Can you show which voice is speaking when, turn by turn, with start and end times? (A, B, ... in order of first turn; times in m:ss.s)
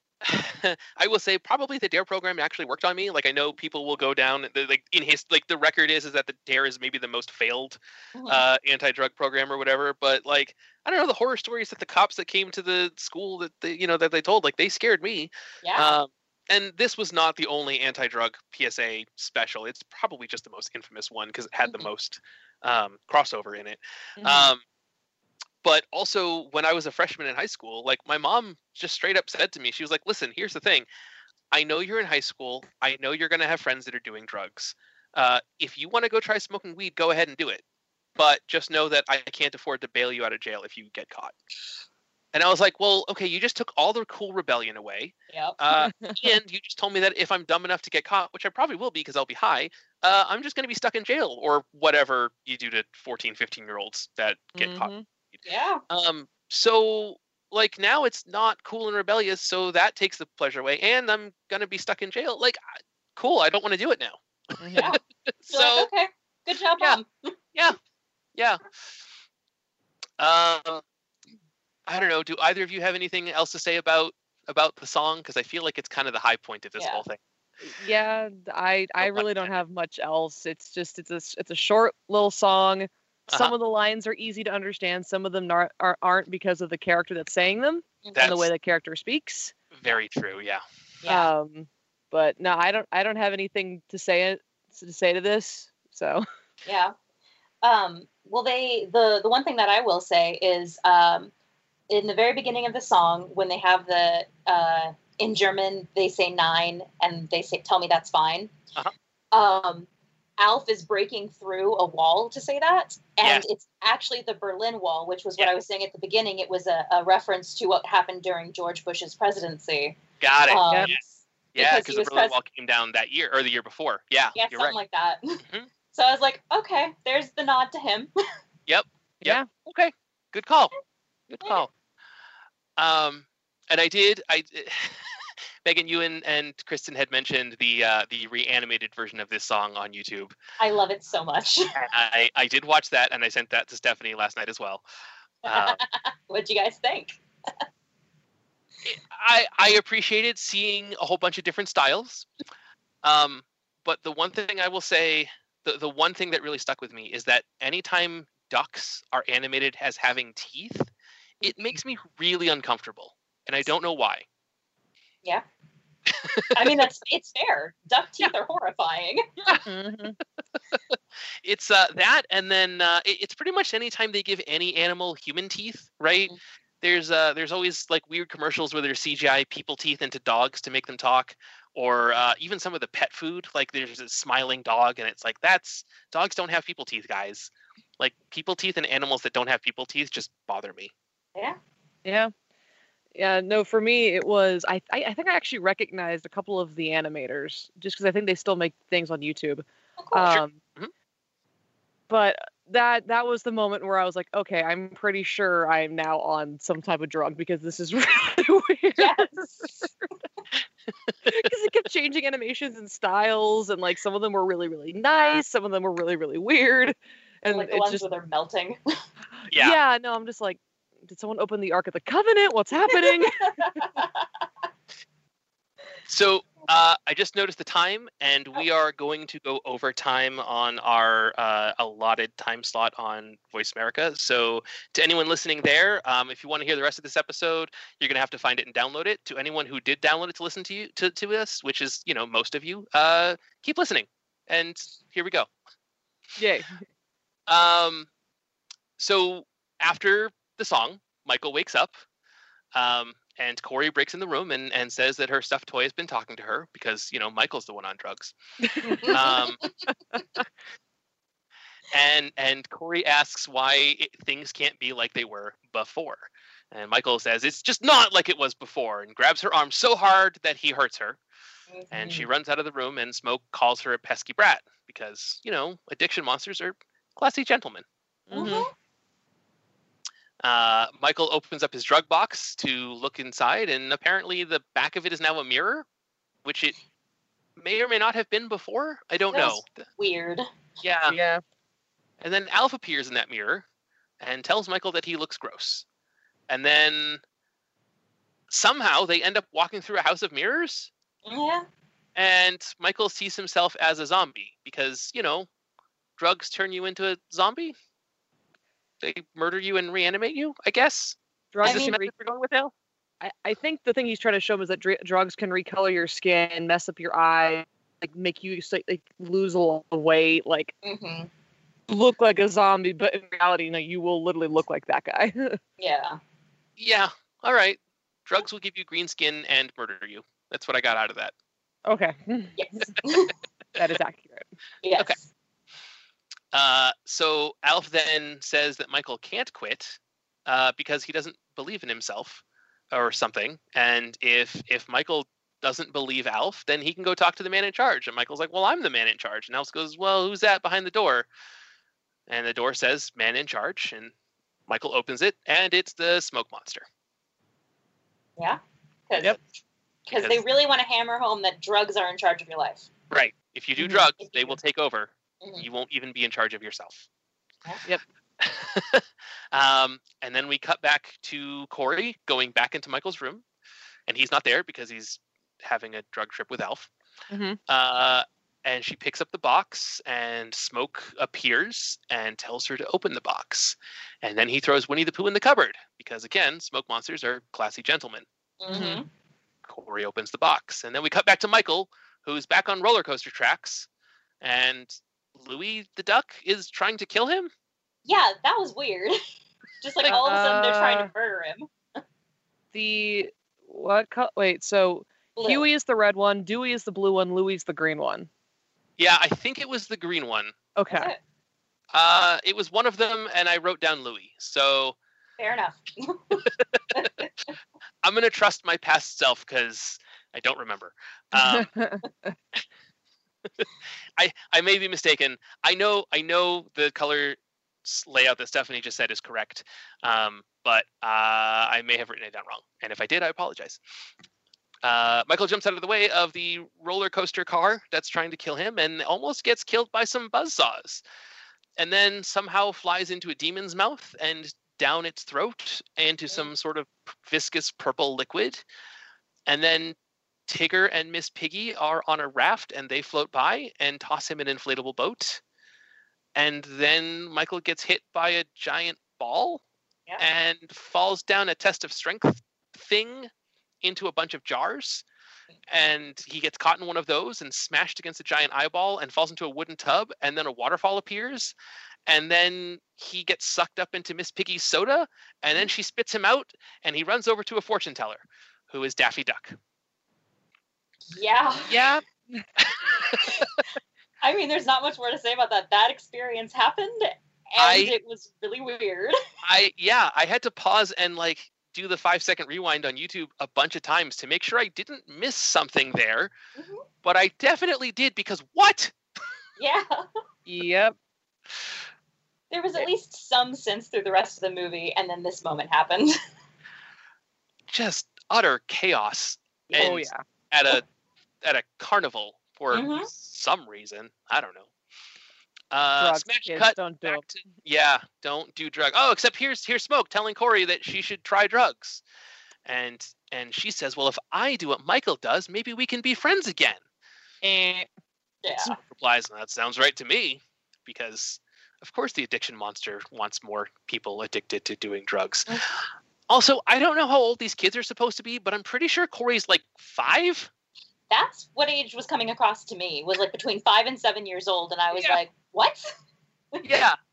0:00.2-0:24.6 A
0:08.1-0:08.4 B
0:15.6-0:16.0 B
0:24.2-0:24.5 C
0:25.6-0:30.8 A
0:31.5-0:37.6 A
0:38.2-0:41.3 A
0:42.3-0:54.9 A
0:45.3-0:45.6 B
0:45.8-0:46.2 C
0:54.6-0:55.0 C
0:55.4-0:55.8 B
0:55.9-1:02.6 A
1:03.2-1:04.2 A
1:04.6-1:05.0 C
1:04.7-1:05.9 A
1:04.8-1:07.3 B
1:08.3-1:08.6 A
1:10.2-1:10.8 A
1:11.9-1:17.2 A
1:16.8-1:17.0 B
1:17.6-1:29.5 C
1:19.0-1:19.6 A
1:23.3-1:23.5 A
1:28.1-1:28.5 A
1:29.7-1:30.6 A
1:31.0-1:31.3 B
1:31.1-1:36.2 C
1:36.6-1:36.9 B
1:37.6-1:41.3 B
1:41.9-1:48.5 B
1:49.3-1:49.9 B
1:50.4-2:02.3 B
2:00.2-2:01.0 A
2:01.5-2:04.8 A
2:04.4-2:05.4 B
2:05.4-2:05.7 A
2:05.9-2:08.1 B
2:08.7-2:10.7 A
2:09.2-2:09.5 C
2:11.3-2:11.7 A
2:12.8-2:20.3 A
2:20.6-2:21.7 B
2:21.7-2:24.8 A
2:25.4-2:25.8 A
2:25.4-2:27.5 B
2:28.8-2:32.3 A
2:33.0-2:40.9 A
2:41.4-2:41.8 C
2:41.4-2:44.2 A
2:46.1-2:46.8 A
2:46.5-2:49.2 B
2:49.6-2:50.2 C
2:50.7-3:10.9 A
3:12.0-3:12.3 C
3:13.1-3:20.6 C
3:20.0-3:20.3 B
3:20.3-3:20.9 A
3:22.1-3:30.1 C
3:29.0-3:29.7 B
3:31.2-3:38.0 C
3:37.5-3:38.8 B
3:39.5-3:43.8 C
3:39.5-3:39.8 A
3:42.9-3:44.2 B
3:46.1-4:05.5 A
4:06.4-4:06.8 C
4:07.5-4:08.1 A
4:09.0-4:12.0 A
4:12.7-4:18.3 A
4:18.6-4:19.1 C
4:18.8-4:19.6 B
4:19.1-4:19.6 A
4:21.9-4:31.2 A
4:31.7-4:32.2 B
4:31.9-4:37.8 A
4:38.3-4:38.7 C
4:38.3-4:38.7 B
4:40.4-4:45.8 A
4:46.4-4:46.7 A
4:47.6-4:49.8 A
4:49.3-4:50.4 B
4:50.8-4:51.1 A
4:51.1-4:51.4 C
4:52.2-4:53.6 A
4:54.2-4:55.8 A
4:56.5-4:57.2 A
4:58.5-5:00.9 A
5:01.2-5:01.6 B
5:02.1-5:05.5 A
5:06.2-5:07.7 A
5:09.0-5:12.7 A
5:11.5-5:12.1 C
5:11.6-5:12.0 B
5:13.2-5:20.7 C
5:20.8-5:21.3 B
5:21.9-5:25.6 C
5:25.8-5:26.2 B
5:26.8-5:31.3 A
5:31.9-5:32.9 C
5:32.6-5:33.3 B
5:33.8-5:34.5 C
5:34.8-5:35.3 B
5:36.5-5:51.3 A
5:52.3-5:54.1 A
5:54.7-5:56.8 A
5:58.4-5:59.4 B
6:00.1-6:00.4 A
6:00.1-6:02.9 B
6:03.1-6:07.1 A
6:03.8-6:04.1 C
6:04.2-6:04.6 B
6:08.4-6:13.4 A
6:14.1-6:16.9 A
6:17.3-6:17.6 C
6:17.7-6:28.2 A
6:28.6-6:29.0 B
6:28.7-6:29.0 C
6:29.6-6:33.9 A
6:34.4-6:37.5 A
6:38.0-6:39.2 B
6:39.8-6:41.7 B
6:40.1-6:41.1 C
6:42.7-6:48.3 C
6:45.4-6:45.7 B
6:49.0-6:50.6 A
6:50.8-6:51.1 C
6:50.9-6:51.2 B
6:51.9-6:55.0 A
6:55.4-6:57.3 B
6:56.4-6:57.1 A
6:58.0-7:01.7 A
7:01.4-7:02.3 C
7:04.2-7:13.8 A
7:14.8-7:21.0 A
7:21.8-7:28.6 A
7:29.5-7:30.0 A
7:30.5-7:35.4 A
7:36.4-7:39.6 A
7:40.2-7:43.3 A
7:43.8-7:45.0 A
7:45.7-7:51.5 A
7:52.1-7:59.6 A
8:01.1-8:01.7 B
8:01.7-8:02.4 C
8:02.6-8:03.4 A
8:04.2-8:09.2 B
8:07.6-8:07.9 A
8:09.4-8:16.3 A
8:16.6-8:16.8 B
8:17.0-8:18.9 A
8:19.6-8:20.0 B
8:20.5-8:21.0 C
8:22.5-8:26.1 B
8:27.7-8:30.8 A
8:29.7-8:30.0 B
8:29.8-8:30.2 C
8:31.4-8:34.7 A
8:32.7-8:33.1 B
8:35.7-8:42.0 A
8:36.0-8:37.3 C
8:42.6-8:46.8 A
8:47.4-8:47.9 C
8:48.4-8:48.7 B
8:48.7-8:55.5 A
8:56.3-9:00.5 A
9:01.1-9:05.9 B
9:06.6-9:07.0 A